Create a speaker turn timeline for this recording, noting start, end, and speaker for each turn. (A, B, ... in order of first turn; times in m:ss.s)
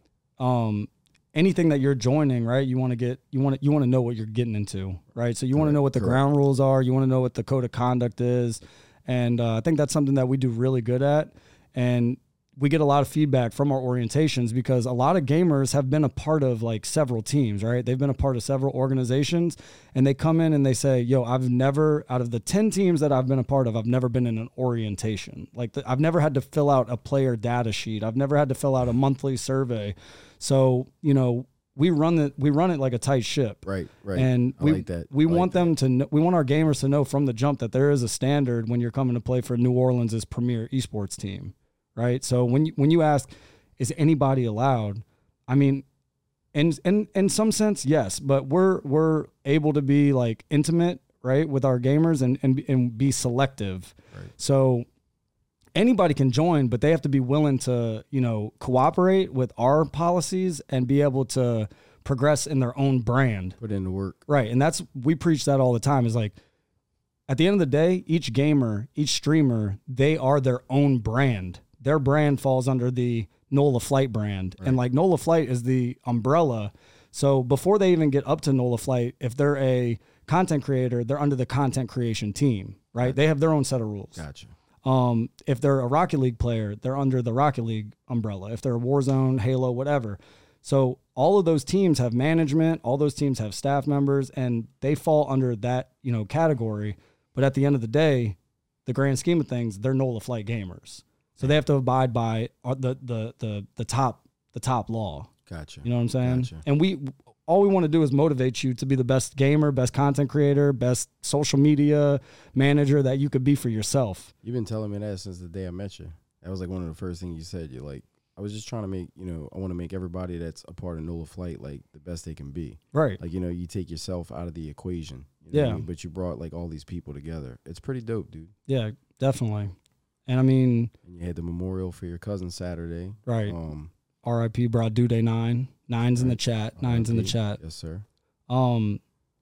0:00.4-0:45.8 A
0:05.5-0:06.2 B
0:33.6-0:35.7 B
0:46.5-0:54.8 A
0:55.8-1:03.6 A
1:03.6-1:04.2 B
1:04.3-1:06.4 A
1:07.3-1:24.2 A
1:24.2-1:24.5 B
1:24.8-1:45.3 A
1:45.5-1:46.6 B
1:45.8-1:54.3 A
1:54.4-2:08.5 B
2:02.9-2:03.2 A
2:05.5-2:05.8 A
2:08.7-2:09.7 A
2:10.3-2:10.9 A
2:11.0-2:13.9 B
2:13.2-2:13.6 A
2:14.2-2:17.6 A
2:16.2-2:18.0 B
2:18.5-2:19.0 A